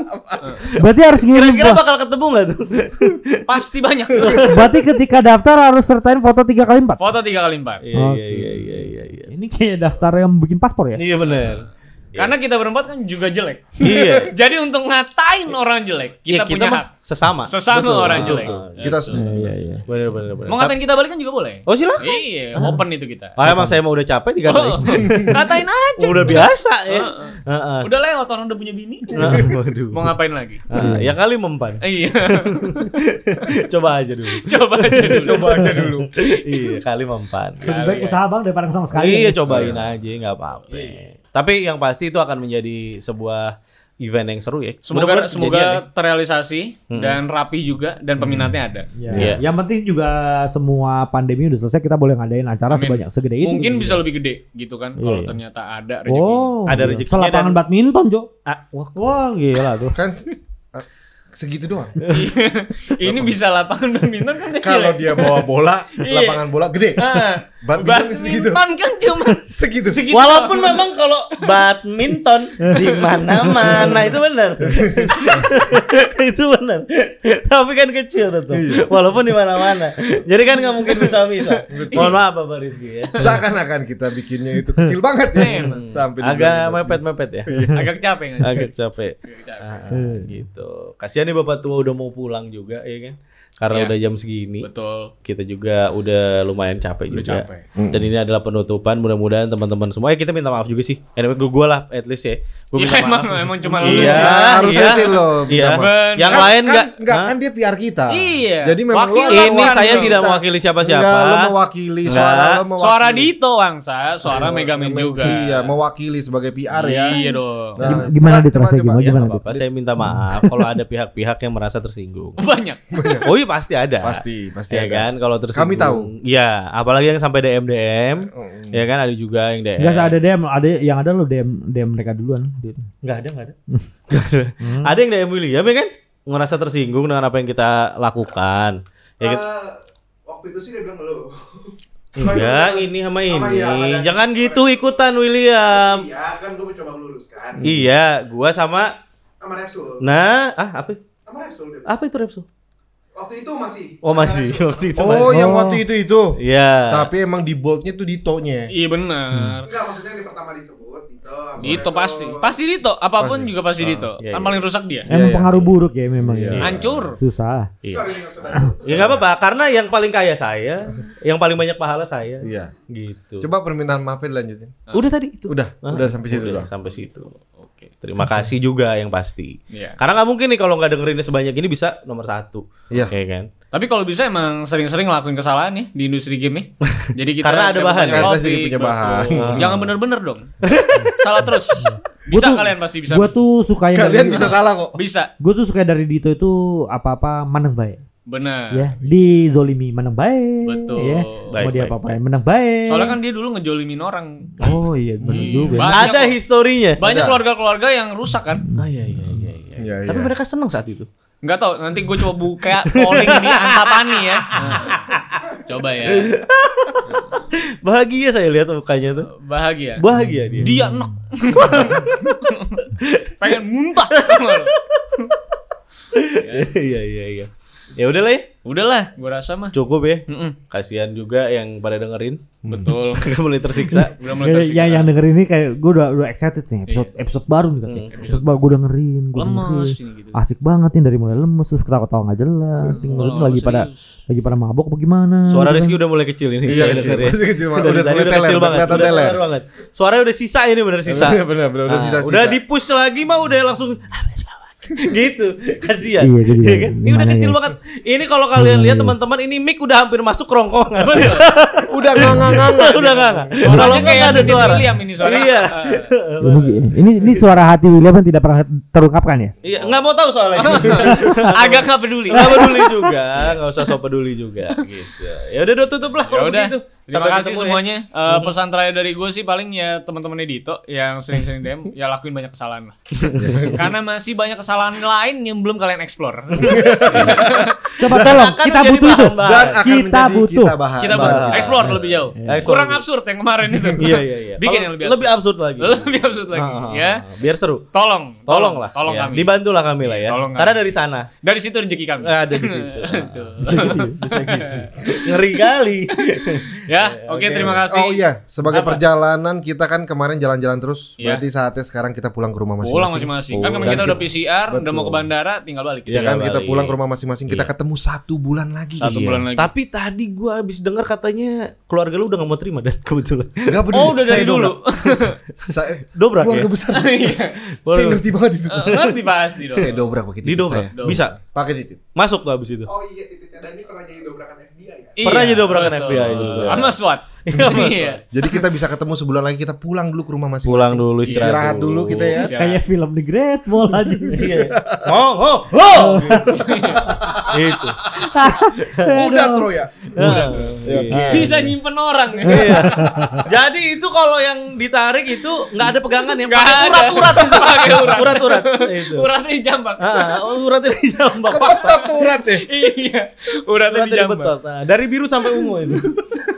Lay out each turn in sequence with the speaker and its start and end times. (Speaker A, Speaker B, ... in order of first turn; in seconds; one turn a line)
Speaker A: 0.6-3.5
Speaker B: 0.8-1.8
Speaker C: 3.5-4.7
Speaker A: 4.1-4.7
Speaker B: 4.4-7.0
Speaker C: 7.0-7.8
Speaker A: 7.8-9.3
Speaker B: 8.0-11.1
Speaker A: 11.0-12.3
Speaker C: 12.2-16.9
Speaker A: 13.8-14.3
Speaker D: 13.9-14.2
Speaker A: 16.3-19.0
Speaker C: 17.5-19.2
Speaker D: 18.1-19.2
Speaker B: 19.1-19.9
Speaker A: 19.9-20.8
Speaker C: 20.5-23.4
Speaker A: 21.7-22.2
Speaker A: 23.4-25.4
Speaker B: 23.5-23.7
Speaker C: 24.5-30.6
Speaker A: 26.0-27.9
Speaker A: 29.1-30.1
Speaker A: 30.7-37.8
Speaker B: 30.8-31.1
Speaker C: 31.8-32.9
Speaker C: 34.3-35.7
Speaker D: 35.1-36.1
Speaker B: 35.6-36.0
Speaker B: 37.6-39.7
Speaker C: 37.6-38.2
Speaker A: 38.9-45.8
Speaker D: 39.5-39.8
Speaker C: 44.9-48.9
Speaker A: 46.9-47.2
Speaker B: 48.2-54.0
Speaker A: 49.1-49.4
Speaker C: 52.7-56.5
Speaker B: 55.0-55.4
Speaker B: 56.1-58.3
Speaker A: 56.6-57.6
Speaker A: 58.5-59.1
Speaker B: 59.0-60.0
Speaker D: 59.9-60.2
Speaker D: 60.7-62.0
Speaker A: 62.0-62.4
Speaker C: 62.1-66.4
Speaker D: 64.5-68.6
Speaker C: 67.0-70.9
Speaker D: 69.4-70.0
Speaker A: 69.9-83.4
Speaker C: 72.7-73.9
Speaker D: 74.7-75.2
Speaker D: 78.5-78.9
Speaker C: 80.8-82.2
Speaker D: 81.7-82.2
Speaker C: 83.0-83.3
Speaker D: 83.2-87.7
Speaker C: 85.4-85.8
Speaker A: 85.6-87.8
Speaker B: 87.5-87.8
Speaker C: 87.7-88.7
Speaker A: 88.4-94.7
Speaker C: 89.2-89.8
Speaker B: 89.9-90.3
Speaker C: 94.6-95.1
Speaker A: 95.2-107.3
Speaker C: 97.1-97.7
Speaker D: 97.8-98.1
Speaker C: 102.8-106.5
Speaker D: 103.9-113.3
Speaker C: 108.1-110.2
Speaker A: 109.3-111.5
Speaker A: 112.0-112.7
Speaker C: 112.1-115.7
Speaker D: 114.2-117.2
Speaker C: 116.7-117.8
Speaker D: 117.7-119.6
Speaker B: 117.8-120.7
Speaker A: 119.0-122.4
Speaker C: 122.4-123.2
Speaker D: 122.9-123.3
Speaker A: 123.2-130.2
Speaker D: 124.0-126.1
Speaker D: 128.3-128.8
Speaker B: 129.8-132.9
Speaker A: 133.0-133.6
Speaker A: 134.1-139.4
Speaker B: 134.6-134.9
Speaker E: 139.2-145.0
Speaker A: 142.2-146.1
Speaker E: 145.7-147.6
Speaker A: 147.6-148.9
Speaker E: 149.4-150.1
Speaker A: 150.0-151.0
Speaker E: 151.3-151.9
Speaker A: 151.9-152.4
Speaker E: 153.2-155.2
Speaker A: 154.0-155.6
Speaker D: 155.0-158.7
Speaker B: 155.3-155.8
Speaker A: 156.4-157.1
Speaker C: 158.7-159.7
Speaker B: 159.3-159.6
Speaker E: 159.6-162.5
Speaker C: 161.6-165.1
Speaker D: 163.2-163.5
Speaker A: 163.8-164.6
Speaker D: 165.1-165.6
Speaker B: 165.1-167.7
Speaker D: 166.2-167.0
Speaker C: 166.6-167.2
Speaker A: 167.8-168.2
Speaker E: 167.8-169.2
Speaker A: 168.8-173.5
Speaker D: 172.4-172.7
Speaker D: 173.4-174.8
Speaker A: 174.9-177.3
Speaker D: 175.5-176.7
Speaker C: 176.9-177.9
Speaker A: 178.0-183.5
Speaker C: 179.7-180.0
Speaker C: 183.7-193.3
Speaker A: 186.8-188.4
Speaker D: 188.1-189.8
Speaker A: 189.2-189.9
Speaker A: 190.6-191.2
Speaker B: 191.8-194.6
Speaker D: 193.9-195.0
Speaker E: 194.2-194.5
Speaker C: 194.9-195.3
Speaker B: 195.4-198.0
Speaker C: 198.3-199.4
Speaker B: 198.7-203.2
Speaker C: 200.7-201.6
Speaker A: 201.5-201.9
Speaker C: 202.9-204.5
Speaker B: 204.6-206.1
Speaker D: 205.2-205.7
Speaker C: 205.3-206.4
Speaker A: 205.8-207.1
Speaker C: 207.0-208.7
Speaker D: 207.0-207.4
Speaker B: 208.6-209.5
Speaker A: 208.8-211.1
Speaker D: 209.8-210.3
Speaker C: 211.4-215.1
Speaker A: 212.8-215.4
Speaker C: 215.6-216.3
Speaker A: 216.1-219.3
Speaker C: 217.1-217.4
Speaker C: 219.3-220.0
Speaker A: 220.0-220.8
Speaker B: 220.1-221.1
Speaker C: 220.6-222.8
Speaker A: 221.5-222.4
Speaker A: 223.0-223.4
Speaker C: 223.4-224.7
Speaker A: 224.1-225.3
Speaker A: 226.1-228.5
Speaker C: 226.4-226.7
Speaker C: 228.7-229.8
Speaker A: 229.7-232.5
Speaker C: 230.3-230.6
Speaker D: 232.7-232.9
Speaker C: 232.7-233.2
Speaker A: 233.1-234.2
Speaker B: 233.8-246.0
Speaker C: 234.2-235.1
Speaker A: 237.9-238.1
Speaker C: 238.1-238.6
Speaker C: 239.3-240.4
Speaker A: 243.0-243.3
Speaker C: 243.0-244.2
Speaker A: 245.5-267.4
Speaker D: 246.6-249.4
Speaker D: 251.1-252.6
Speaker B: 256.2-257.6
Speaker B: 258.6-259.2
Speaker C: 261.0-261.5
Speaker D: 261.9-264.8
Speaker B: 262.2-262.6
Speaker C: 263.6-266.1
Speaker B: 266.4-269.6
Speaker A: 269.6-278.6
Speaker C: 270.6-273.2
Speaker C: 276.2-283.0
Speaker A: 283.2-283.8
Speaker D: 283.3-283.9
Speaker C: 283.7-287.8
Speaker A: 286.5-287.5
Speaker D: 286.6-288.4
Speaker B: 288.0-290.8
Speaker A: 288.1-289.8
Speaker D: 289.4-291.8
Speaker C: 291.0-297.2
Speaker A: 291.0-293.1
Speaker B: 291.8-292.7
Speaker A: 294.0-297.9
Speaker C: 297.9-300.8
Speaker A: 298.5-301.3
Speaker C: 301.4-305.4
Speaker A: 302.2-307.8
Speaker B: 303.6-304.2
Speaker C: 306.1-309.0
Speaker D: 307.9-315.3
Speaker C: 312.8-316.4
Speaker A: 313.6-314.2
Speaker D: 316.1-319.4
Speaker A: 316.1-317.0
Speaker C: 319.0-319.7
Speaker A: 319.0-324.7
Speaker D: 323.7-324.8
Speaker C: 323.9-325.4
Speaker A: 325.2-326.8
Speaker D: 325.6-327.4
Speaker C: 326.9-327.6
Speaker A: 327.6-328.2
Speaker D: 327.9-329.0
Speaker C: 328.7-330.0
Speaker A: 328.8-329.2
Speaker D: 329.7-332.0
Speaker A: 330.4-331.4
Speaker C: 331.0-331.3
Speaker A: 332.1-332.9
Speaker E: 332.9-336.1
Speaker C: 335.2-338.2
Speaker A: 335.2-338.2
Speaker D: 338.3-342.5
Speaker A: 340.6-342.5
Speaker C: 341.2-342.8
Speaker B: 342.5-344.6
Speaker D: 343.9-345.2
Speaker A: 344.3-348.0
Speaker B: 345.9-347.0
Speaker C: 346.5-347.2
Speaker B: 348.2-349.7
Speaker A: 348.6-349.2
Speaker D: 349.1-351.5
Speaker A: 350.1-351.6
Speaker C: 350.2-350.8
Speaker B: 351.1-351.6
Speaker C: 351.3-352.9
Speaker A: 352.4-359.3
Speaker B: 352.5-353.5
Speaker C: 356.4-360.6
Speaker A: 360.0-362.0
Speaker D: 361.5-362.7
Speaker C: 361.8-364.5
Speaker A: 363.9-366.1